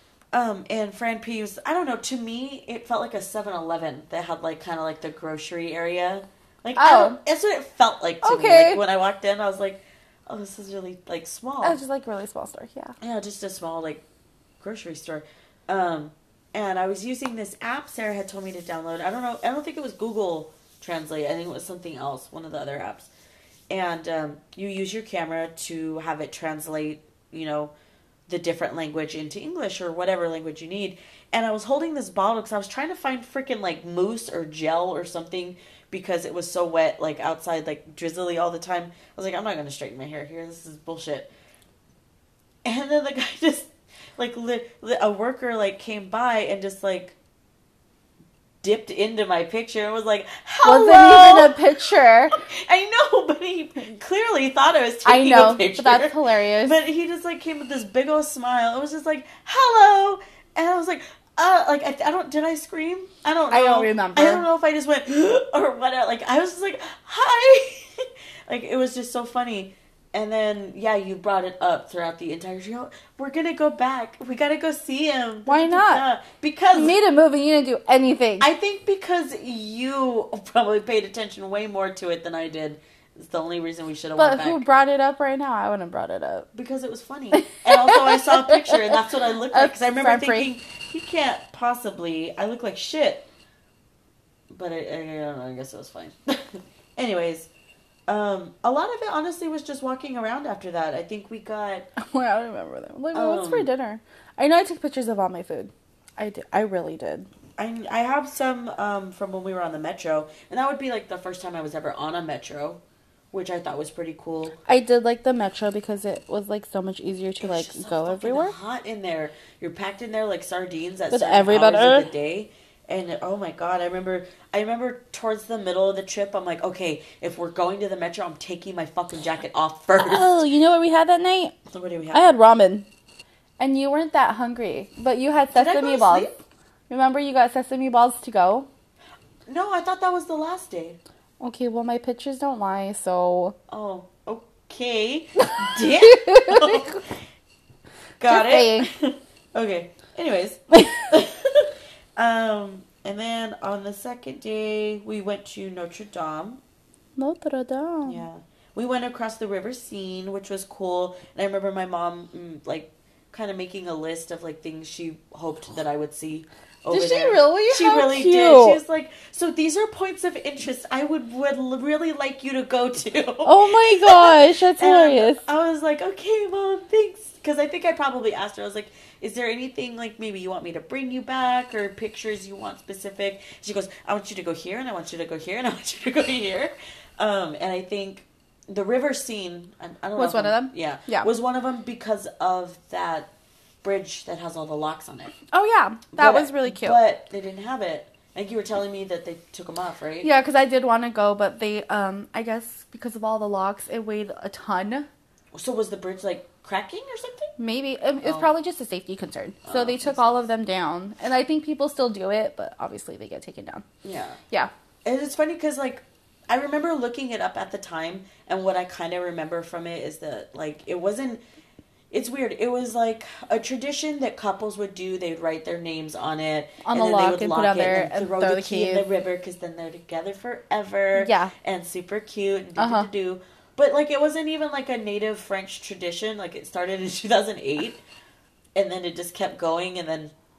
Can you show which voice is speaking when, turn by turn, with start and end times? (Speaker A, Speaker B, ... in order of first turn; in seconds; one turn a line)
Speaker A: 0.3-11.8
Speaker B: 6.8-7.2
Speaker B: 8.2-8.8
Speaker B: 11.6-12.9
Speaker A: 13.0-14.0
Speaker A: 14.6-23.1
Speaker A: 23.7-27.7
Speaker A: 28.3-41.3
Speaker A: 42.6-47.1
Speaker A: 48.6-51.6
Speaker B: 50.6-52.4
Speaker A: 52.3-77.0
Speaker B: 55.0-56.8
Speaker B: 63.5-64.5
Speaker B: 75.5-76.0
Speaker B: 76.7-78.5
Speaker A: 78.4-84.6
Speaker B: 84.2-86.5
Speaker A: 86.5-93.2
Speaker B: 87.3-89.0
Speaker B: 89.5-90.5
Speaker A: 94.5-97.5
Speaker A: 98.1-101.9
Speaker B: 102.0-107.3
Speaker A: 103.1-103.7
Speaker A: 107.6-112.8
Speaker A: 113.3-114.5
Speaker B: 114.7-118.5
Speaker A: 117.4-130.4
Speaker B: 121.1-122.1
Speaker B: 130.0-131.5
Speaker A: 131.7-132.3
Speaker B: 132.1-132.9
Speaker B: 133.6-136.3
Speaker A: 135.5-136.3
Speaker B: 136.9-138.7
Speaker A: 139.5-141.0
Speaker B: 141.4-143.6
Speaker A: 143.7-147.1
Speaker B: 145.6-147.0
Speaker A: 148.2-156.6
Speaker B: 148.3-148.9
Speaker B: 157.2-158.2
Speaker A: 158.0-193.3
Speaker B: 166.9-168.8
Speaker B: 173.4-175.4
Speaker B: 190.2-191.3
Speaker A: 193.8-195.3
Speaker B: 195.5-197.0
Speaker A: 196.1-200.3
Speaker B: 200.2-205.1
Speaker A: 205.5-207.5
Speaker B: 207.6-213.8
Speaker A: 208.2-208.5
Speaker A: 209.6-210.4
Speaker A: 214.0-214.4
Speaker A: 215.0-221.4
Speaker A: 222.1-238.0
Speaker B: 226.8-229.0
Speaker B: 231.1-231.5
Speaker B: 232.8-233.1
Speaker A: 238.7-240.3